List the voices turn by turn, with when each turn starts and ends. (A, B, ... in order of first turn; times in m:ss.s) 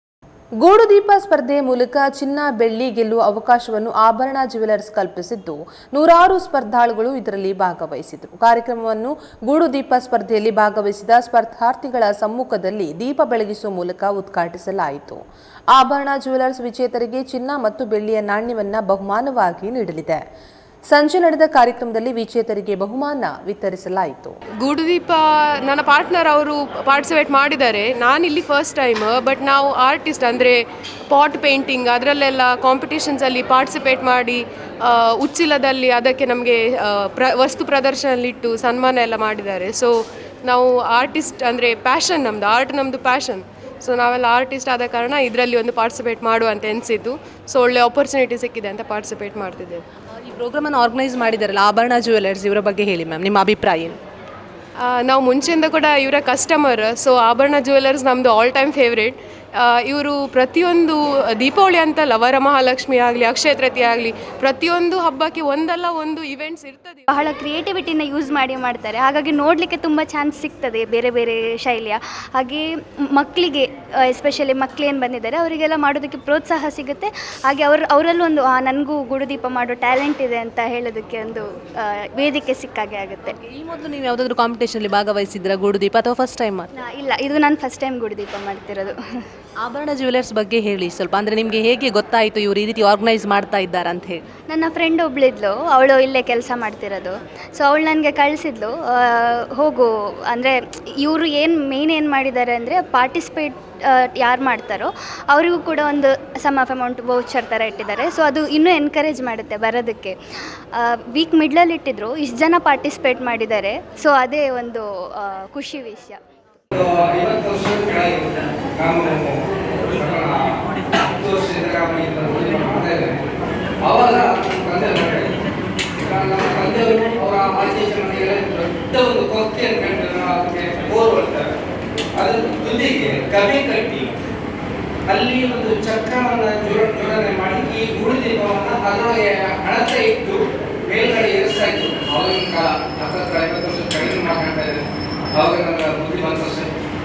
0:00.6-0:15.2 A
0:15.7-0:20.2 A
0:20.9-0:24.4 A
0:24.6-0:39.9 B
0:40.4-0:49.8 B
0:50.3-0:54.0 A
0:54.8-1:07.1 B
1:07.1-1:23.4 C
1:23.5-1:26.6 A
1:26.8-1:29.0 C
1:29.6-1:34.2 A
1:34.5-1:50.2 C
1:50.7-1:56.2 C
1:56.7-2:00.6 D
2:01.2-2:03.2 D
2:03.8-2:05.3 D
2:06.0-2:11.5 D
2:12.2-2:14.1 D
2:15.1-2:26.7 D